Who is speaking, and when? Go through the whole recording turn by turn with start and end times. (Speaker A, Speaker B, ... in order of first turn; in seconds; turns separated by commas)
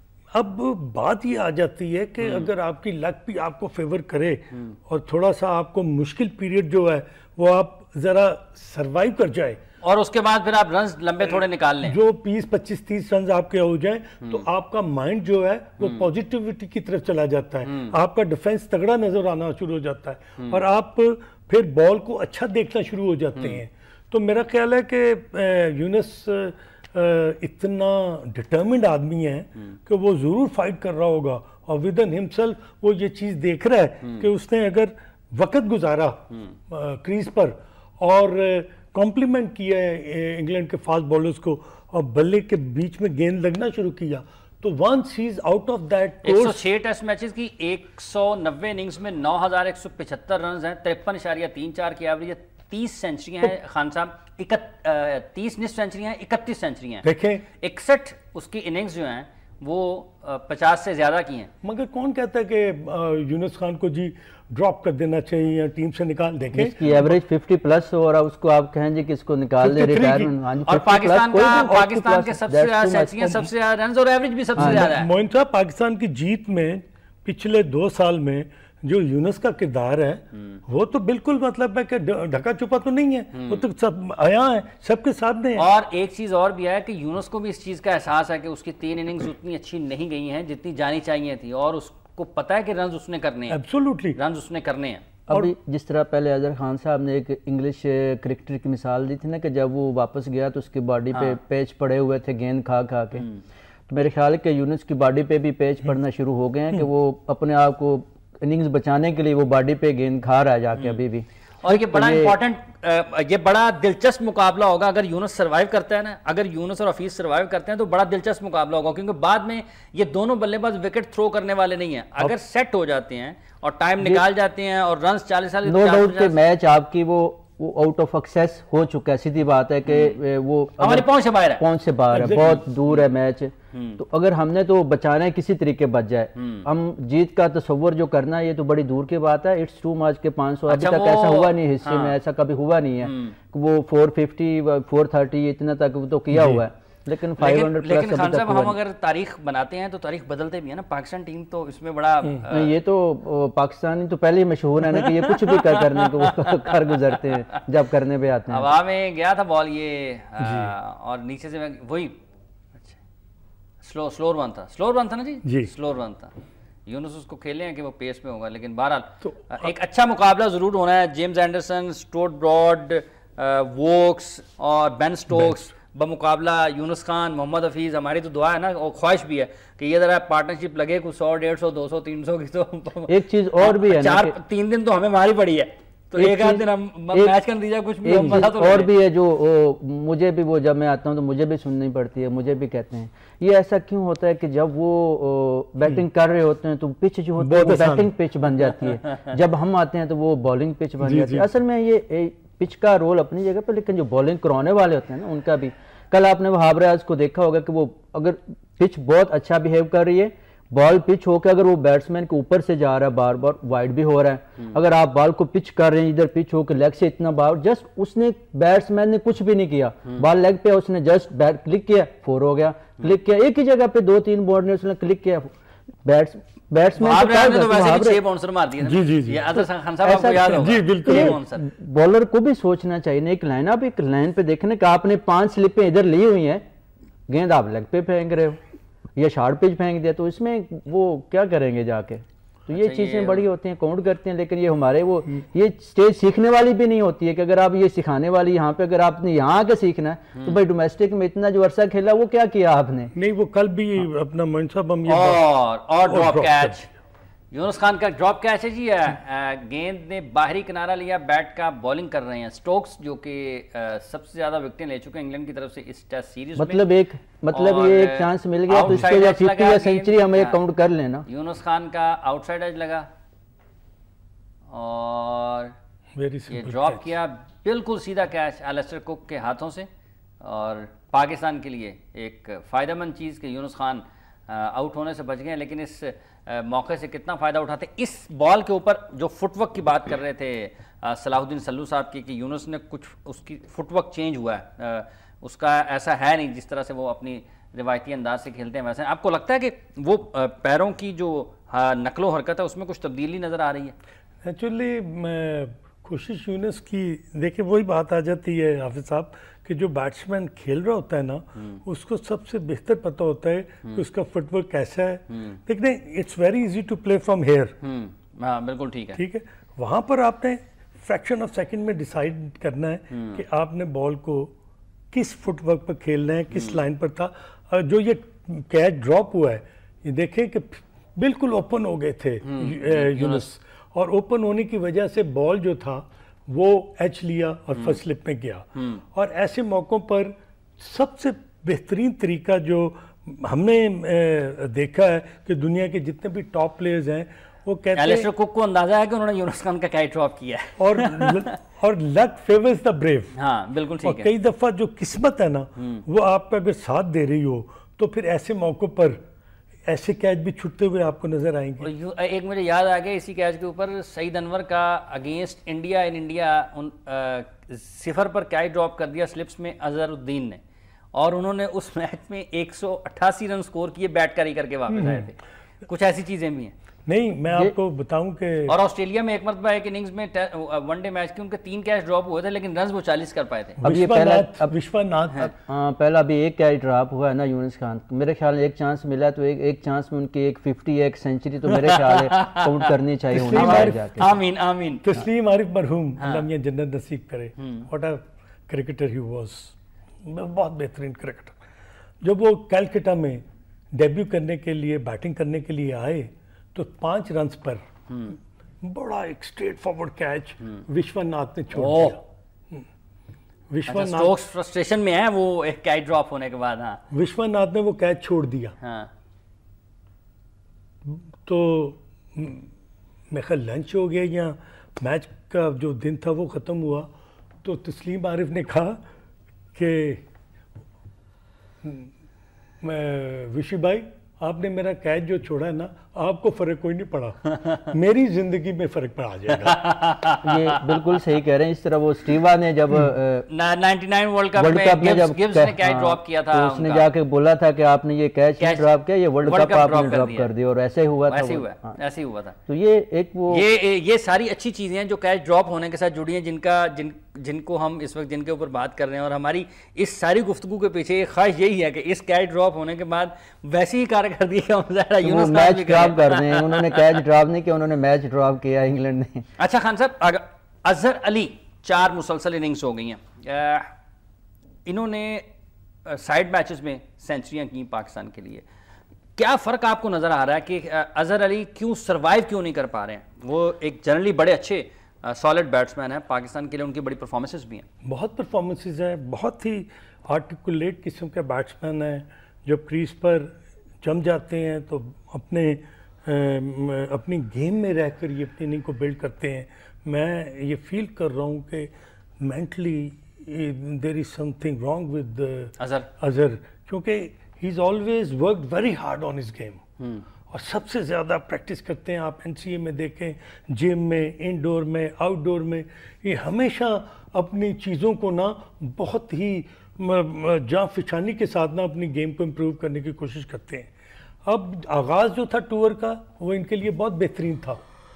Speaker A: 0.3-9.6, Speaker B: 2.2-2.5, Speaker B: 9.8-12.0, Speaker A: 11.3-46.6, Speaker B: 17.6-17.9, Speaker B: 20.4-20.6, Speaker B: 46.2-57.1, Speaker A: 57.0-57.5, Speaker B: 57.6-61.5, Speaker A: 61.6-67.2, Speaker C: 66.5-73.5, Speaker A: 69.6-70.3, Speaker B: 70.7-75.1, Speaker A: 74.6-85.7, Speaker C: 74.6-74.9, Speaker B: 83.3-83.6, Speaker B: 85.6-93.6, Speaker A: 93.5-94.2, Speaker B: 94.2-95.1, Speaker C: 95.3-103.2, Speaker B: 103.2-103.4, Speaker C: 103.9-112.3, Speaker B: 111.6-126.4, Speaker C: 125.7-148.8, Speaker B: 129.9-130.2, Speaker B: 130.8-131.6, Speaker A: 132.1-132.6, Speaker B: 132.3-133.1, Speaker B: 133.7-134.0, Speaker B: 136.4-136.7, Speaker B: 140.7-142.2, Speaker B: 143.0-143.4, Speaker A: 146.3-146.6, Speaker B: 147.4-152.8, Speaker C: 152.5-158.7, Speaker B: 155.0-157.6, Speaker B: 158.5-162.2, Speaker A: 160.4-160.7, Speaker B: 163.8-166.3, Speaker A: 165.4-165.7, Speaker B: 166.9-188.9, Speaker A: 169.2-169.7, Speaker A: 175.3-175.6, Speaker C: 183.1-184.4, Speaker C: 186.2-187.3, Speaker C: 188.0-225.5, Speaker A: 197.4-198.1, Speaker A: 201.0-201.5, Speaker C: 226.0-228.2, Speaker B: 227.0-231.6, Speaker A: 228.8-229.6, Speaker C: 230.0-236.6, Speaker A: 230.3-231.4, Speaker C: 237.3-238.6, Speaker C: 239.2-253.1, Speaker B: 242.8-243.5, Speaker A: 253.1-255.4, Speaker B: 255.1-256.9, Speaker A: 256.1-256.9, Speaker B: 257.5-266.8, Speaker C: 266.6-271.3, Speaker B: 267.5-270.6, Speaker B: 271.3-273.1, Speaker B: 274.7-275.8, Speaker A: 276.1-277.1, Speaker B: 276.5-279.9, Speaker B: 280.4-303.9, Speaker A: 304.4-317.8, Speaker B: 315.3-315.6, Speaker B: 317.8-319.2, Speaker A: 319.1-324.5, Speaker B: 323.1-323.4, Speaker A: 325.1-348.3, Speaker B: 326.5-326.8, Speaker B: 332.4-333.5, Speaker B: 338.8-339.0, Speaker B: 347.9-351.5, Speaker A: 350.8-353.4, Speaker B: 353.4-354.3, Speaker A: 354.0-359.2, Speaker B: 355.8-356.0, Speaker A: 359.9-361.9, Speaker B: 361.8-370.6, Speaker B: 371.1-376.7, Speaker A: 374.9-375.3, Speaker A: 377.1-378.8, Speaker B: 378.7-383.8, Speaker A: 383.8-385.5, Speaker C: 383.9-384.7, Speaker C: 385.4-394.3, Speaker B: 391.7-395.1, Speaker A: 393.3-394.4, Speaker A: 395.0-401.6, Speaker B: 396.2-396.5, Speaker B: 397.6-397.9, Speaker A: 402.2-407.9, Speaker B: 408.1-408.4, Speaker A: 408.8-412.9, Speaker B: 411.7-412.2, Speaker A: 413.7-414.4, Speaker B: 413.9-417.0, Speaker A: 417.1-418.8, Speaker B: 418.8-419.1, Speaker A: 421.1-422.7, Speaker A: 423.3-427.1, Speaker A: 427.6-429.0, Speaker A: 429.8-430.2, Speaker A: 431.8-432.1, Speaker A: 432.8-439.9, Speaker B: 437.5-437.8, Speaker B: 439.6-441.2, Speaker C: 440.4-443.5, Speaker B: 443.5-447.1, Speaker C: 444.6-452.0, Speaker B: 448.6-448.9, Speaker B: 449.4-450.5, Speaker B: 451.3-452.6, Speaker C: 452.7-453.7, Speaker B: 453.5-467.2, Speaker C: 465.2-469.5, Speaker B: 469.6-473.9, Speaker B: 474.9-475.5, Speaker B: 476.1-478.6, Speaker B: 479.4-487.9, Speaker A: 488.1-509.8, Speaker B: 505.8-506.1, Speaker B: 510.0-510.2, Speaker A: 510.5-523.9, Speaker A: 524.5-527.8